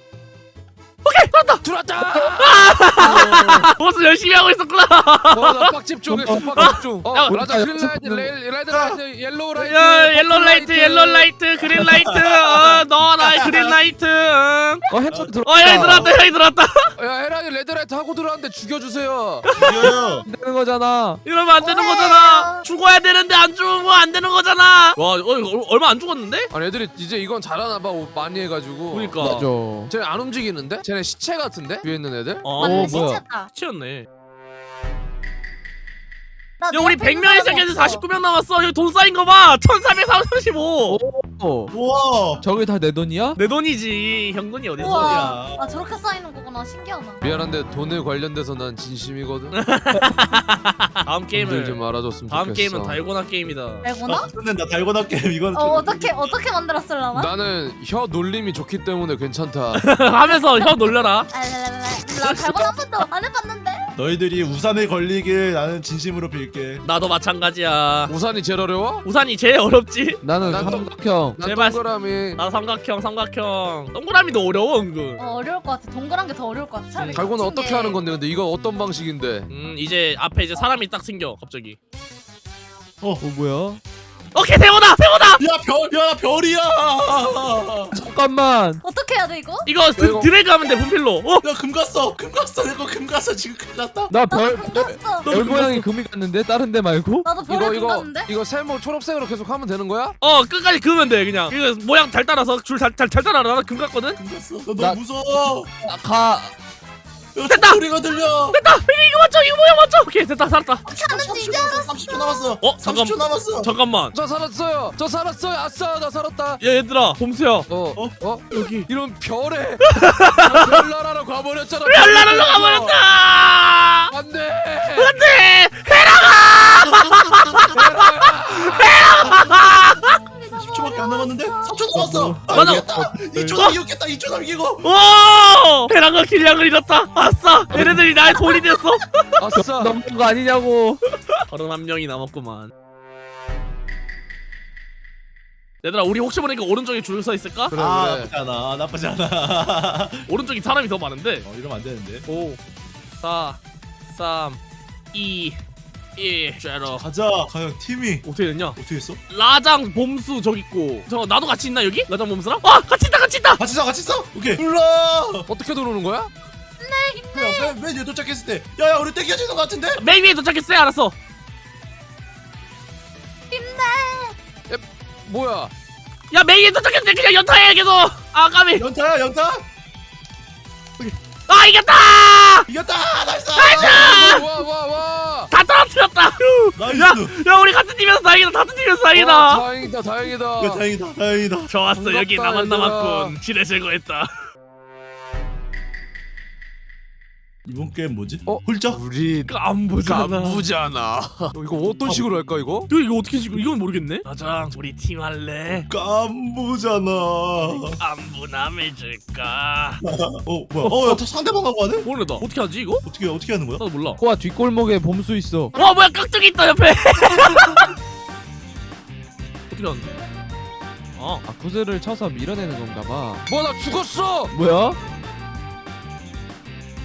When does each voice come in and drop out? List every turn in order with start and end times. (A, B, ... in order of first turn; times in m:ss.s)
0:01.0-0:05.8 A
0:01.6-0:02.9 B
0:03.0-0:03.7 C
0:05.3-0:11.0 B
0:06.1-0:08.3 C
0:06.5-0:07.4 A
0:08.7-0:09.0 D
0:09.6-0:14.8 A
0:10.8-0:11.3 C
0:11.6-0:13.8 D
0:14.9-0:16.2 C
0:15.1-0:16.1 D
0:15.4-0:16.8 A
0:17.0-0:19.5 B
0:19.5-0:20.0 A
0:19.6-0:20.3 D
0:20.2-0:21.2 C
0:21.2-0:26.5 A
0:21.6-0:22.6 E
0:26.5-0:32.5 B
0:28.9-0:29.5 A
0:29.2-0:29.9 C
0:32.4-0:34.1 A
0:32.6-0:33.5 E
0:32.6-0:33.2 C
0:36.6-0:38.0 E
0:36.7-0:41.0 A
0:40.9-0:41.7 C
0:41.7-0:42.4 D
0:42.4-0:43.4 C
0:43.4-0:45.4 A
0:44.8-0:47.2 E
0:45.0-0:45.7 D
0:47.2-0:49.6 B
0:49.5-0:53.9 A
0:49.9-0:50.2 C
0:51.4-0:53.0 B
0:53.8-0:54.3 E
0:54.1-0:56.4 D
0:55.5-0:57.3 E
0:57.1-0:59.8 B
0:59.8-1:01.3 A
1:01.3-1:03.9 E
1:02.2-1:02.8 A
1:04.0-1:06.8 D
1:06.8-1:08.1 A
1:08.1-1:09.1 B
1:09.0-1:10.2 A
1:10.2-1:11.4 C
1:10.4-1:10.8 D
1:10.5-1:12.4 B
1:11.4-1:11.8 A
1:12.4-1:15.2 A
1:15.2-1:18.0 E
1:17.0-1:17.2 A
1:17.1-1:19.5 B
1:19.5-1:21.8 A
1:23.2-1:23.8 C
1:24.3-1:25.4 A
1:25.4-1:28.0 D
1:27.9-1:28.8 C
1:28.8-1:29.7 E
1:29.6-1:31.4 A
1:30.0-1:30.3 B
1:31.4-1:34.1 D
1:34.1-1:37.3 C
1:34.3-1:35.3 E
1:35.2-1:35.9 A
1:37.2-1:38.3 E
1:37.5-1:40.2 B
1:40.2-1:44.2 A
1:44.2-1:45.7 D
1:45.8-1:46.5 C
1:47.4-1:48.6 D
1:47.5-1:47.8 A
1:48.5-1:50.9 A
1:50.9-1:52.0 E
1:50.9-1:53.7 D
1:52.6-1:54.2 A
1:54.1-1:56.6 B
1:56.6-1:57.7 A
1:57.7-2:03.0 B
1:58.5-1:58.9 A
1:59.8-2:00.8 A
2:01.8-2:04.1 A
2:04.1-2:05.2 B
2:04.9-2:10.2 A
2:06.8-2:07.7 D
2:07.7-2:09.2 B
2:09.2-2:09.7 D
2:10.3-2:11.7 E
2:10.5-2:14.9 D
2:11.9-2:12.8 C
2:12.5-2:13.8 A
2:13.3-2:13.6 C
2:14.8-2:19.4 A
2:17.7-2:18.0 C
2:19.4-2:20.0 B
2:19.6-2:21.0 C
2:21.5-2:22.7 A
2:25.8-2:27.8 A
2:27.7-2:28.3 B
2:27.8-2:30.3 D
2:30.3-2:31.5 A
2:31.4-2:32.3 D
2:32.3-2:32.6 A
2:33.2-2:34.6 A
2:35.1-2:35.6 A
2:36.2-2:37.1 A
2:36.8-2:39.2 D
2:38.2-2:38.8 A
2:39.3-2:43.6 A
2:43.6-2:45.5 D
2:45.5-2:46.3 B
2:46.8-2:47.8 E
2:47.3-2:50.0 D
2:50.0-2:51.2 A
2:53.5-2:54.4 E
2:54.7-2:55.7 B
2:56.3-2:58.9 A
2:58.8-2:59.6 D
3:01.0-3:02.7 A
3:02.7-3:04.4 D
3:03.6-3:04.5 A
3:03.7-3:05.5 B
3:05.5-3:09.7 A
3:06.8-3:07.4 D
3:09.1-3:10.8 B
3:10.6-3:11.7 D
3:11.7-3:14.5 A
3:11.9-3:13.4 B
3:17.7-3:19.0 D
3:18.5-3:22.9 B
3:19.5-3:20.7 A
3:22.9-3:25.9 A
3:25.9-3:28.0 D
3:27.7-3:30.0 A
3:30.0-3:32.1 D
3:30.8-3:31.2 A
3:32.0-3:33.0 A
3:33.0-3:33.8 D
3:33.8-3:34.2 A
3:34.2-3:35.7 C
3:35.7-3:37.9 A
3:39.7-3:40.2 A
3:41.2-3:41.4 A
3:41.5-3:43.5 C
3:43.5-3:44.5 B
3:44.5-3:45.0 C